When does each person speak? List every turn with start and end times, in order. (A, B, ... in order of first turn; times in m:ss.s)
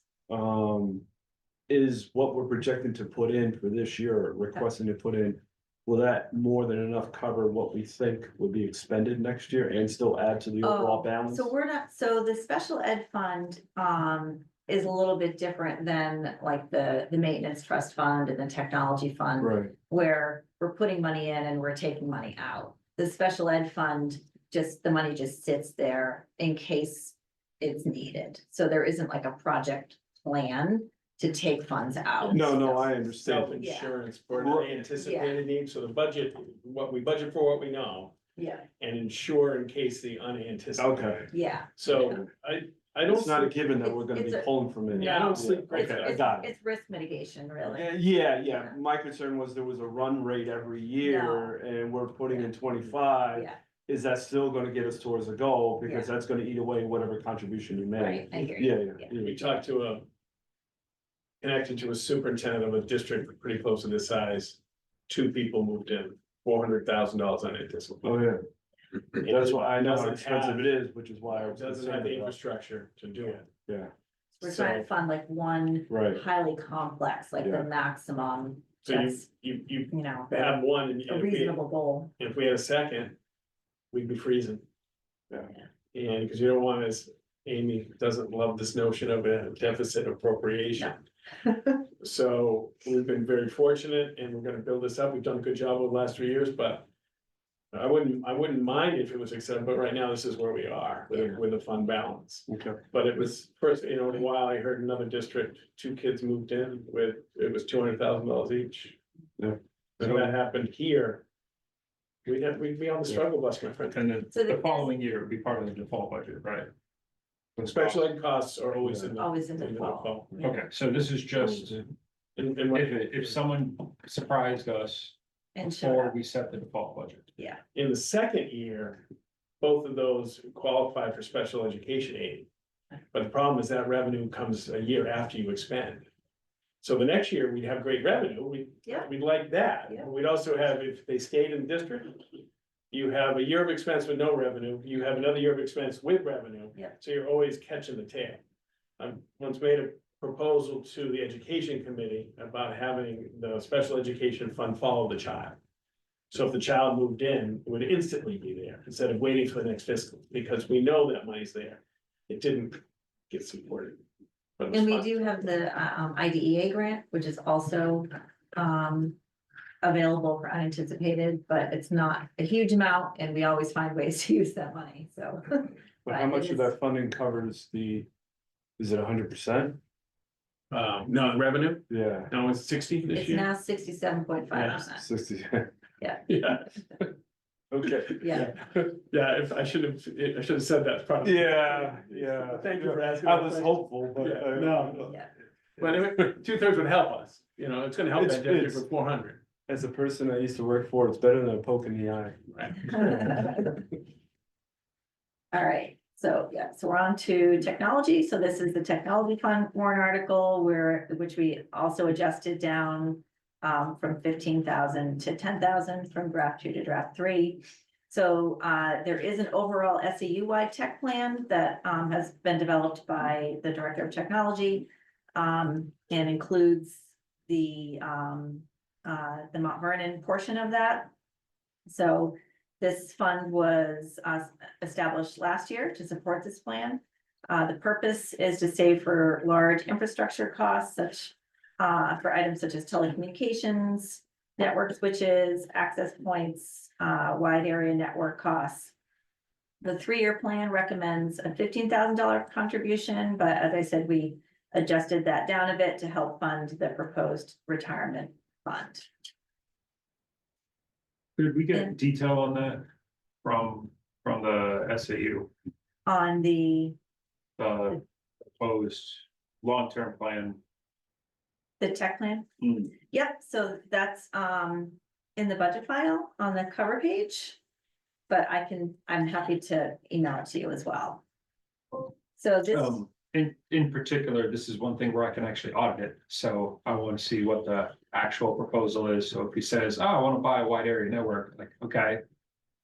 0:00.3-0:01.0 A
0:01.7-0:11.5 A
0:10.6-0:33.0 B
0:19.4-0:19.7 A
0:32.3-0:33.6 A
0:33.2-0:38.2 C
0:33.6-0:33.9 B
0:34.3-0:34.8 A
0:35.0-0:35.4 B
0:38.4-0:38.6 B
0:38.8-0:41.2 C
0:40.8-0:41.3 A
0:41.3-0:42.2 B
0:41.8-0:43.6 C
0:41.9-0:42.3 A
0:43.1-0:46.5 A
0:43.7-0:48.8 B
0:44.9-0:46.2 C
0:47.6-0:59.4 A
0:51.0-0:51.6 B
0:53.3-0:53.6 B
0:55.8-0:56.1 B
0:58.0-0:59.1 B
0:59.2-1:00.1 C
1:01.4-1:04.6 C
1:05.1-1:08.1 C
1:08.0-1:08.4 A
1:09.2-1:12.4 A
1:09.2-1:10.8 C
1:11.4-1:13.5 C
1:13.7-1:13.9 A
1:14.4-1:19.2 B
1:14.4-1:14.9 C
1:15.9-1:16.2 A
1:17.4-1:17.7 A
1:18.8-1:21.6 C
1:19.9-1:22.1 B
1:22.2-1:23.2 C
1:23.9-1:24.6 C
1:25.9-1:31.0 C
1:32.0-1:36.9 C
1:37.7-1:49.0 C
1:41.1-1:41.4 B
1:42.5-1:42.8 A
1:49.4-1:50.3 A
1:50.0-1:51.2 C
1:52.2-1:54.0 C
1:53.9-1:56.7 D
1:54.3-1:54.9 B
1:57.6-2:00.4 C
1:58.8-1:59.2 A
1:59.2-2:00.6 B
2:00.4-2:01.9 D
2:02.4-2:03.4 C
2:02.7-2:07.3 D
2:05.6-2:06.2 B
2:07.7-2:09.0 C
2:09.6-2:12.5 C
2:13.1-2:16.1 C
2:16.8-2:22.3 C
2:22.9-2:28.4 C
2:29.0-2:35.6 C
2:36.3-2:44.0 C
2:44.6-2:45.3 C
2:44.7-2:49.2 B
2:49.8-2:56.7 B
2:56.1-2:58.1 A
2:58.8-2:59.8 A
3:00.7-3:03.5 C
3:01.9-3:02.3 A
3:03.1-3:05.0 B
3:04.5-3:04.8 C
3:05.0-3:05.7 A
3:06.0-3:06.2 B
3:06.3-3:07.1 C
3:07.7-3:08.5 A
3:08.1-3:15.1 C
3:08.2-3:08.5 B
3:11.2-3:15.2 A
3:15.0-3:15.3 B
3:15.8-3:19.4 C
3:18.1-3:18.9 A
3:19.7-3:23.6 A
3:22.5-3:23.1 C
3:23.1-3:23.5 B
3:25.5-3:51.1 B
3:51.9-4:08.9 B
4:09.8-4:19.1 B
4:21.4-4:22.9 D
4:23.4-4:25.5 D
4:26.1-4:27.0 B
4:27.6-4:30.6 D
4:31.8-4:32.5 B
4:32.6-4:33.0 D
4:33.0-4:37.6 B
4:38.3-4:41.2 B
4:42.4-4:43.0 B
4:42.7-4:52.2 D